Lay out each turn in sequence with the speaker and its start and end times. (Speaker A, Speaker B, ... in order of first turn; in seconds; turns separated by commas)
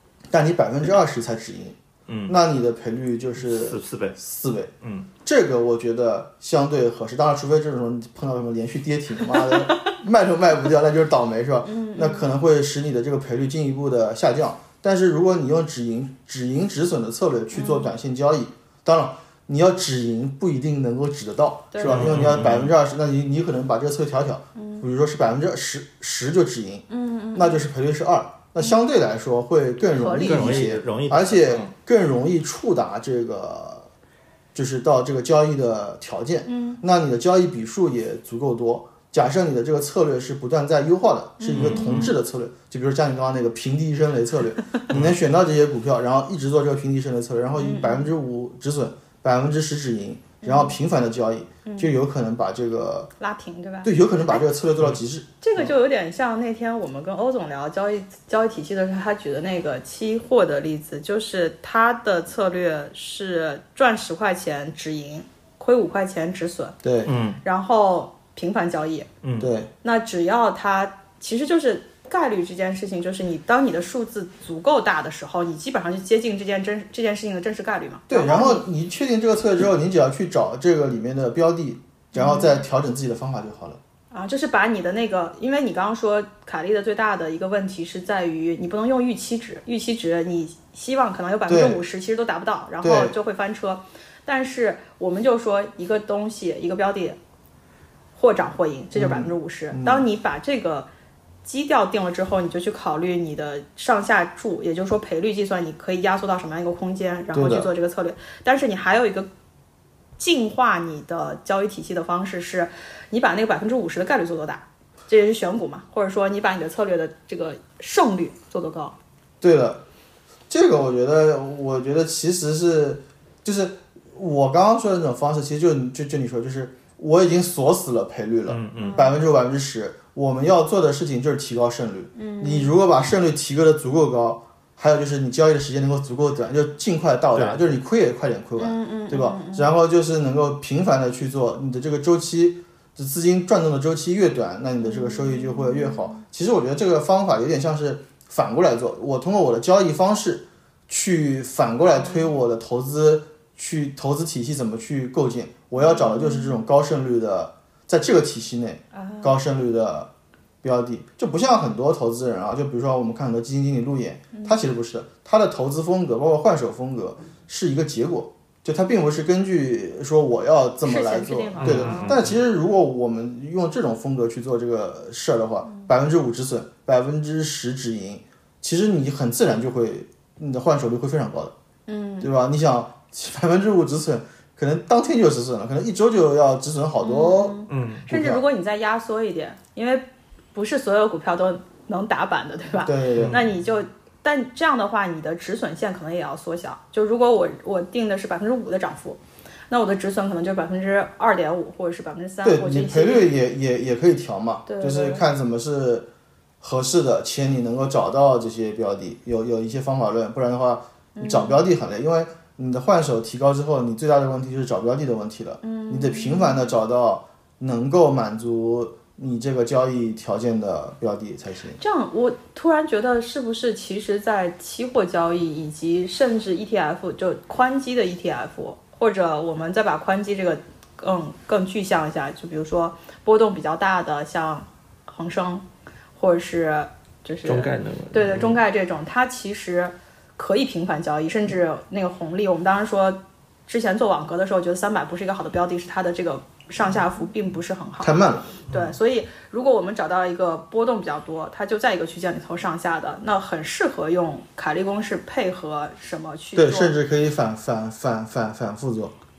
Speaker A: 0.3-4.7, Speaker B: 2.1-2.4, Speaker B: 3.4-4.2, Speaker B: 4.8-5.1, Speaker A: 5.2-33.9, Speaker C: 9.3-9.8, Speaker C: 11.6-12.3, Speaker C: 17.5-17.9, Speaker C: 21.7-22.1, Speaker B: 21.9-22.7, Speaker C: 24.6-24.8, Speaker C: 26.9-27.6, Speaker C: 29.9-30.7, Speaker B: 30.2-31.7, Speaker A: 34.5-53.1, Speaker C: 36.5-36.8, Speaker C: 41.4-42.1, Speaker B: 41.5-42.1, Speaker B: 44.9-45.1, Speaker C: 47.6-48.1, Speaker C: 50.4-50.7, Speaker C: 51.6-51.9, Speaker C: 53.2-54.4, Speaker A: 53.8-55.7, Speaker C: 55.4-66.8, Speaker A: 66.8-67.1, Speaker B: 67.0-67.4, Speaker C: 67.4-69.1, Speaker B: 69.2-69.5, Speaker A: 69.4-69.7, Speaker C: 69.8-78.6, Speaker A: 78.1-83.8, Speaker C: 82.1-82.6, Speaker C: 84.1-97.2, Speaker A: 91.5-91.8, Speaker A: 92.8-93.1, Speaker C: 98.2-100.9, Speaker A: 98.9-100.1, Speaker C: 101.4-109.3, Speaker A: 107.3-107.7, Speaker C: 110.2-118.9, Speaker A: 119.4-119.8, Speaker A: 120.5-160.1, Speaker B: 128.5-129.0, Speaker C: 128.8-129.2, Speaker C: 132.2-132.7, Speaker B: 137.3-137.6, Speaker C: 138.6-139.7, Speaker C: 144.8-146.2, Speaker C: 152.0-152.3, Speaker C: 155.8-156.6, Speaker C: 158.9-159.3, Speaker A: 160.6-181.5, Speaker C: 164.3-164.6, Speaker C: 170.8-172.2, Speaker B: 171.6-172.4, Speaker C: 181.9-182.3, Speaker A: 182.2-188.4, Speaker C: 187.0-199.2, Speaker B: 187.7-188.0, Speaker A: 192.8-193.4, Speaker B: 193.2-193.5, Speaker C: 199.7-203.3, Speaker A: 202.4-206.1, Speaker C: 204.7-205.2, Speaker A: 206.6-221.8, Speaker C: 211.2-211.6, Speaker C: 215.6-216.7, Speaker C: 221.8-235.6, Speaker C: 236.2-256.9, Speaker B: 237.4-238.6, Speaker A: 248.0-248.6, Speaker B: 248.7-248.9, Speaker A: 256.5-259.1